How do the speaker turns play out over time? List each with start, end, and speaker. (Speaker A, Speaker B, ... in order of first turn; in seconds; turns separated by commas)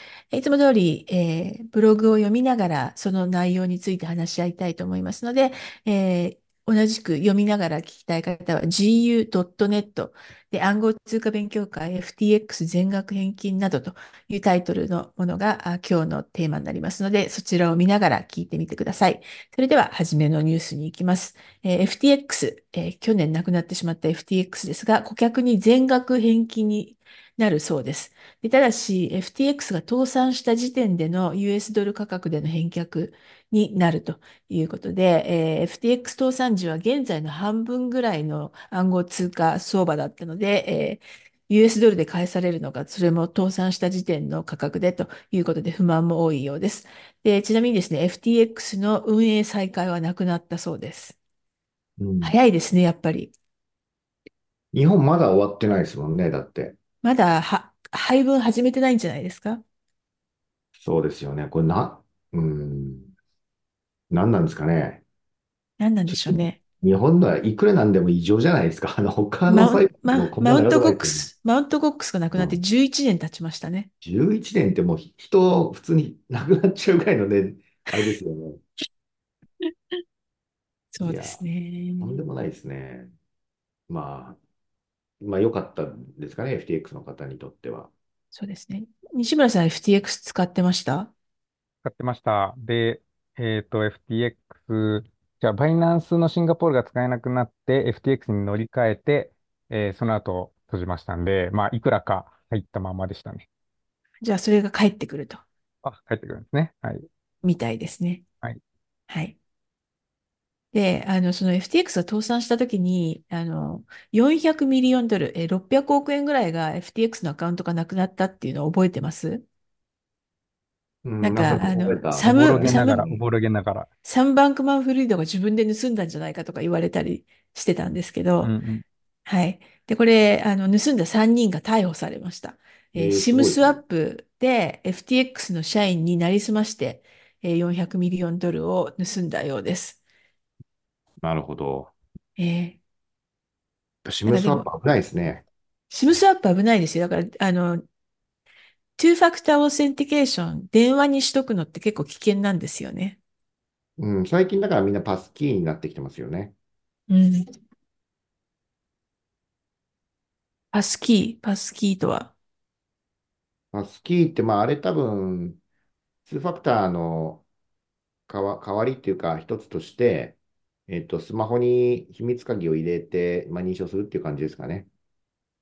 Speaker A: 0.3-51.2, Speaker B: 52.0-52.4, Speaker A: 52.2-53.3, Speaker B: 54.7-56.8, Speaker A: 57.0-59.6, Speaker B: 60.8-63.1, Speaker B: 64.1-65.0, Speaker A: 65.8-66.6, Speaker B: 66.1-71.3, Speaker A: 69.5-73.9, Speaker B: 74.0-78.6, Speaker A: 80.9-82.2, Speaker B: 81.0-81.4, Speaker B: 82.0-83.1, Speaker B: 83.9-84.4, Speaker B: 85.2-87.9, Speaker A: 88.3-91.1, Speaker C: 91.8-103.5, Speaker A: 104.2-105.4, Speaker C: 105.8-107.0, Speaker A: 107.4-108.2, Speaker A: 109.1-109.4, Speaker A: 110.7-119.4, Speaker B: 121.0-123.2, Speaker A: 121.2-123.0, Speaker C: 122.2-123.9, Speaker A: 124.0-128.5, Speaker C: 128.4-128.8, Speaker A: 129.3-140.0, Speaker B: 132.9-133.8, Speaker B: 141.2-141.9, Speaker A: 142.4-142.8, Speaker B: 144.0-145.4, Speaker A: 144.2-144.7, Speaker A: 145.9-147.8, Speaker A: 149.0-153.2, Speaker B: 154.0-156.5, Speaker A: 157.1-157.5, Speaker A: 160.7-162.3, Speaker B: 163.7-165.6, Speaker B: 166.3-167.4, Speaker B: 168.3-170.3, Speaker B: 170.9-174.9